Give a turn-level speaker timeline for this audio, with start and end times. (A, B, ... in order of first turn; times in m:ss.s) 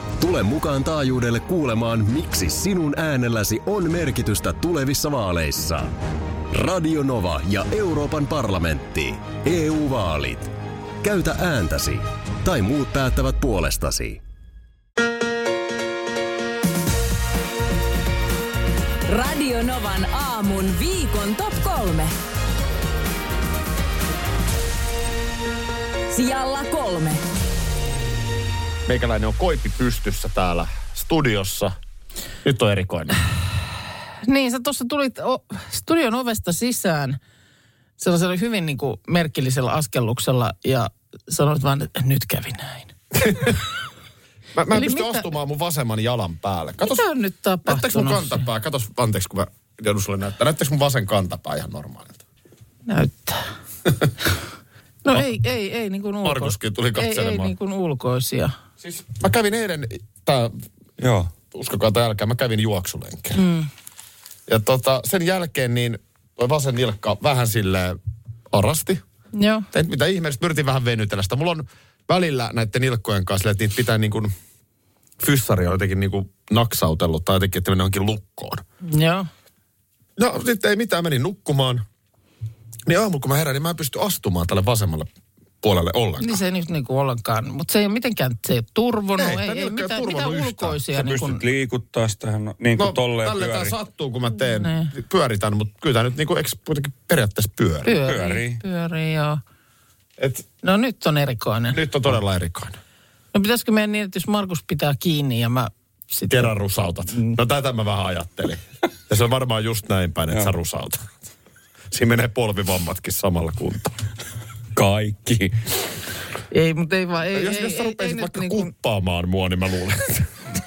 0:00.2-0:05.9 A
0:06.5-0:14.2 A
0:19.0-0:22.1 B
0:26.1-0:27.2 B
0:28.8-0:31.7 C
0:32.4-0:33.2 C
0:34.2-0:37.2 D
0:38.0-0:43.5 D
0:43.1-0:43.5 C
0:44.5-0:47.0 C
0:44.7-0:45.2 D
0:46.8-0:48.4 D
0:47.6-0:52.2 C
0:52.9-0:53.5 D
0:55.0-0:58.5 D
0:56.2-0:57.5 C
0:58.8-1:00.5 C
1:01.0-1:01.3 E
1:01.5-1:03.4 C
1:03.4-1:03.7 D
1:04.5-1:08.0 C
1:08.5-1:09.0 C
1:09.3-1:09.7 D
1:09.7-1:14.3 C
1:15.2-1:18.6 C
1:18.8-1:19.3 D
1:20.2-1:21.8 C
1:22.8-1:25.1 C
1:25.6-1:26.4 C
1:26.2-1:31.4 D
1:29.2-1:30.8 C
1:30.9-1:33.7 E
1:32.8-1:37.9 C
1:34.6-1:34.9 D
1:37.8-1:39.4 D
1:38.0-1:38.6 E
1:40.2-1:40.4 C
1:40.6-1:41.8 D
1:41.7-1:42.8 C
1:43.3-1:46.5 D
1:46.3-1:51.0 C
1:51.9-1:53.9 C
1:54.7-1:55.6 E
1:56.5-1:58.7 D
1:57.3-2:00.3 C